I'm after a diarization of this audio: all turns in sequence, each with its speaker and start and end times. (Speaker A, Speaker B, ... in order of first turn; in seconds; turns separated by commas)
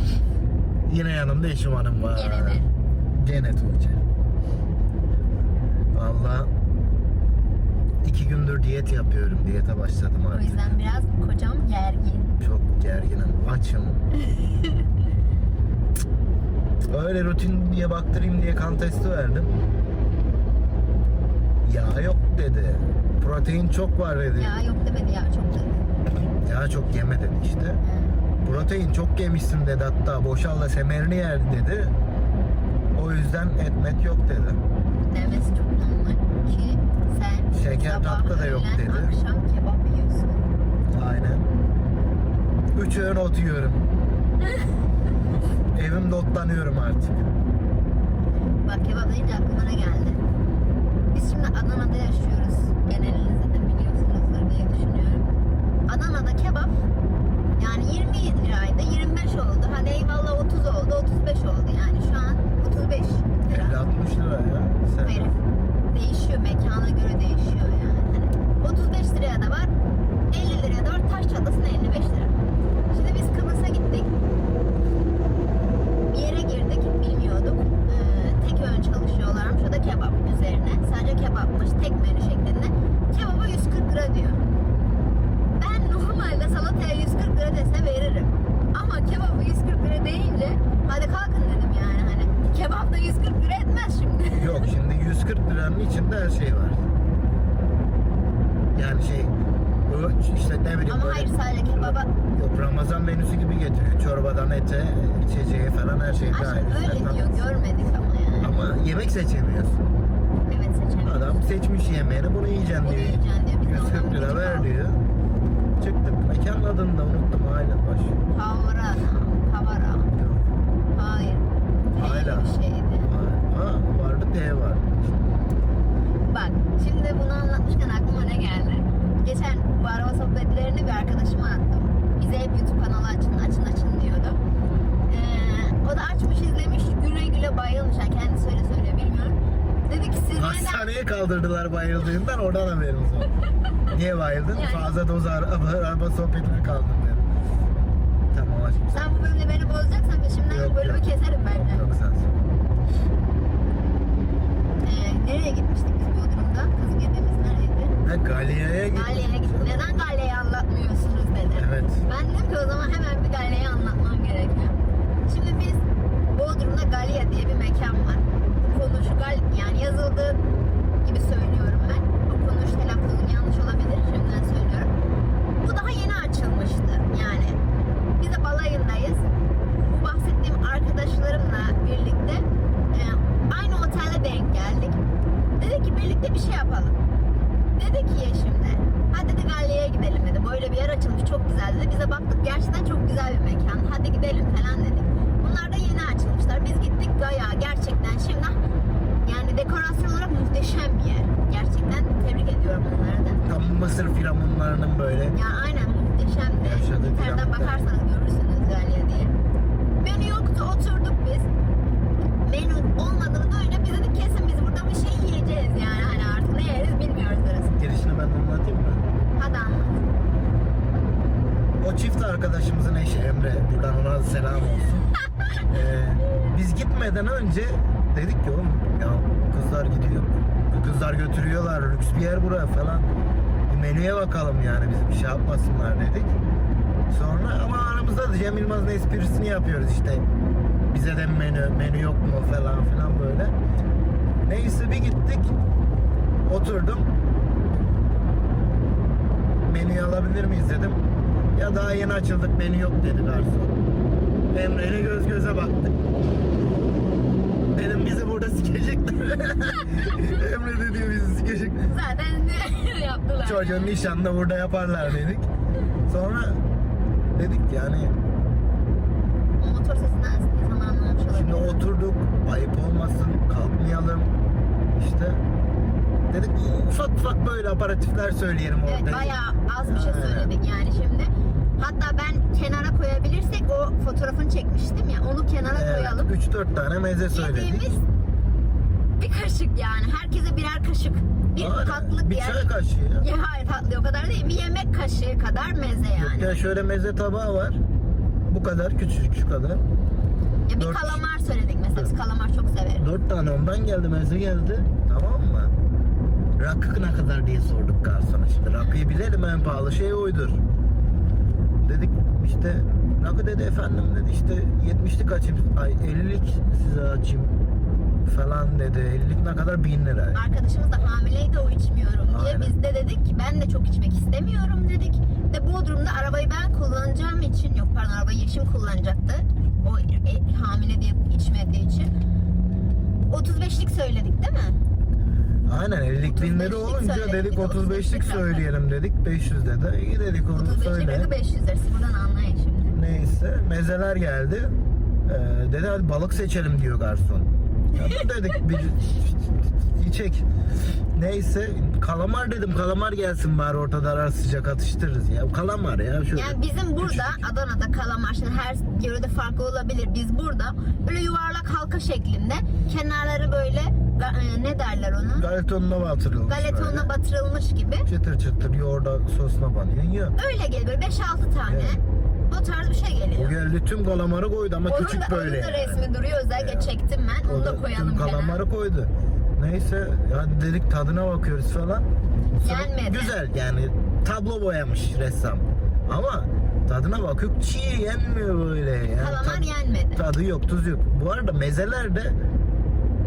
Speaker A: 0.9-4.0, Speaker B: 2.0-2.7, Speaker A: 5.9-6.5, Speaker A: 8.0-10.6, Speaker B: 10.3-12.4, Speaker A: 12.4-14.0, Speaker B: 14.3-14.8, Speaker A: 16.9-19.5, Speaker A: 21.6-24.6, Speaker B: 24.4-25.9, Speaker A: 26.4-27.8, Speaker B: 27.8-28.1, Speaker A: 28.4-31.9, Speaker A: 33.0-34.6, Speaker B: 35.1-40.5, Speaker A: 37.5-39.1, Speaker A: 40.9-41.5, Speaker A: 42.8-43.9, Speaker A: 45.7-47.2, Speaker B: 48.6-50.2, Speaker B: 51.1-55.3, Speaker B: 55.9-56.8, Speaker B: 57.6-63.9, Speaker A: 63.5-65.3, Speaker B: 65.0-69.7, Speaker B: 70.3-72.4, Speaker B: 72.9-74.1, Speaker B: 76.0-84.4, Speaker B: 85.6-94.7, Speaker A: 94.4-96.9, Speaker A: 98.7-99.3, Speaker A: 99.9-107.5, Speaker B: 100.9-102.1, Speaker B: 106.3-108.5, Speaker A: 108.4-110.0, Speaker B: 110.5-111.4, Speaker A: 111.0-115.0, Speaker B: 112.8-114.7, Speaker A: 115.8-118.2, Speaker B: 118.3-120.1, Speaker A: 120.2-120.4, Speaker B: 120.9-123.1, Speaker A: 122.0-124.9, Speaker B: 126.2-134.4, Speaker B: 135.1-141.0, Speaker A: 140.3-143.3, Speaker A: 143.9-147.3, Speaker B: 144.5-145.0, Speaker A: 148.3-149.3, Speaker B: 148.9-151.9, Speaker A: 150.5-152.5, Speaker B: 154.8-158.0, Speaker A: 158.0-159.9, Speaker B: 158.9-170.4, Speaker A: 161.6-162.1, Speaker B: 171.0-174.9, Speaker B: 175.6-177.6, Speaker B: 178.2-185.0, Speaker B: 185.6-187.0, Speaker B: 187.8-198.6, Speaker B: 199.2-203.4, Speaker A: 203.4-205.4, Speaker B: 205.3-209.3, Speaker A: 206.6-207.9, Speaker B: 210.0-211.5, Speaker B: 212.4-217.8, Speaker A: 217.8-219.0, Speaker B: 219.4-220.1, Speaker A: 221.8-225.1, Speaker A: 225.7-233.2, Speaker A: 233.7-236.3, Speaker A: 237.1-240.3, Speaker A: 240.9-243.6, Speaker A: 244.4-245.6, Speaker A: 246.5-247.1, Speaker A: 249.6-253.7, Speaker A: 254.5-255.9, Speaker A: 257.8-261.9, Speaker B: 261.9-264.1, Speaker A: 263.4-265.5, Speaker A: 266.1-266.6, Speaker A: 267.4-268.2, Speaker B: 269.6-271.8, Speaker A: 271.3-274.3, Speaker A: 274.9-275.4, Speaker A: 276.3-280.5, Speaker B: 278.9-286.3, Speaker A: 285.6-287.9, Speaker B: 287.3-288.0, Speaker B: 289.2-296.6, Speaker A: 291.6-293.3, Speaker A: 296.1-297.8, Speaker A: 298.5-299.9, Speaker B: 300.7-303.1, Speaker A: 300.8-301.2, Speaker A: 303.0-305.7, Speaker A: 306.6-310.6, Speaker A: 311.8-317.6, Speaker A: 318.2-320.4, Speaker B: 320.3-332.1, Speaker A: 322.3-322.7, Speaker B: 333.3-334.8, Speaker A: 335.7-341.3, Speaker B: 336.2-338.7, Speaker B: 340.5-343.0, Speaker A: 342.9-350.5, Speaker B: 348.0-348.2, Speaker A: 351.1-357.4, Speaker B: 356.3-365.5, Speaker A: 365.4-367.1, Speaker B: 366.5-368.1, Speaker A: 368.1-370.4, Speaker B: 370.4-373.6, Speaker A: 371.7-372.0, Speaker A: 373.4-376.9, Speaker B: 374.9-378.6, Speaker A: 377.4-382.1, Speaker B: 382.6-383.4, Speaker A: 382.6-392.4, Speaker B: 389.2-390.2